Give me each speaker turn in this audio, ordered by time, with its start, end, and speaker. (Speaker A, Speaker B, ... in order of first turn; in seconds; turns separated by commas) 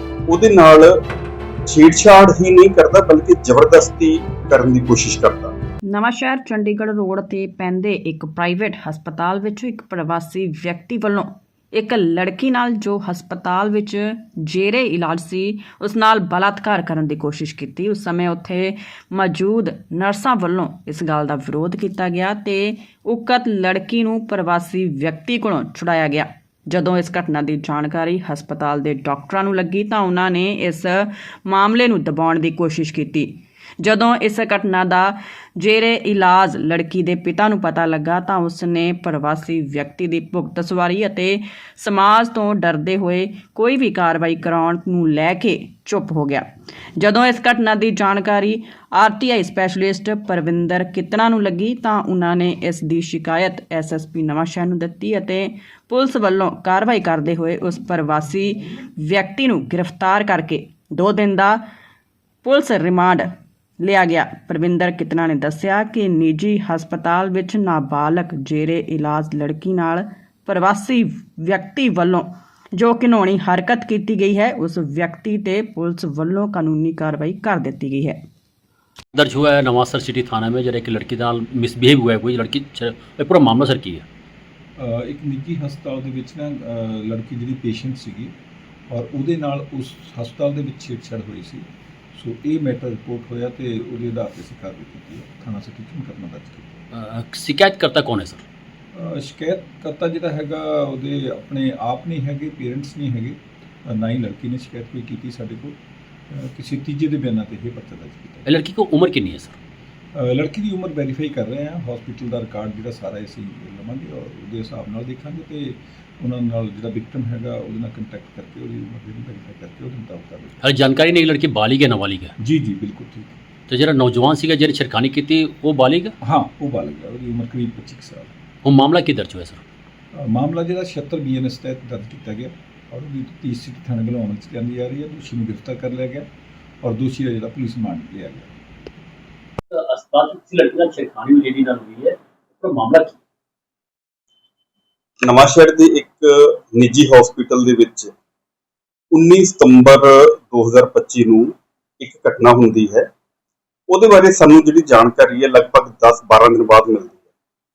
Speaker A: 0.3-1.0, Speaker A: 1.7-5.5, Speaker B: 5.9-46.5, Speaker B: 47.0-61.6, Speaker B: 62.4-78.2, Speaker C: 79.1-84.0, Speaker D: 84.8-88.3, Speaker D: 88.9-96.8, Speaker C: 96.9-98.4, Speaker D: 98.9-105.8, Speaker D: 106.3-108.5, Speaker C: 108.5-109.5, Speaker D: 110.1-120.6, Speaker C: 120.6-122.3, Speaker D: 122.4-123.4, Speaker C: 123.7-126.1, Speaker D: 126.2-128.3, Speaker C: 128.6-129.6, Speaker D: 130.1-136.3, Speaker D: 136.8-138.5, Speaker C: 139.7-143.2, Speaker A: 145.2-148.1, Speaker A: 149.1-153.1, Speaker A: 153.9-157.2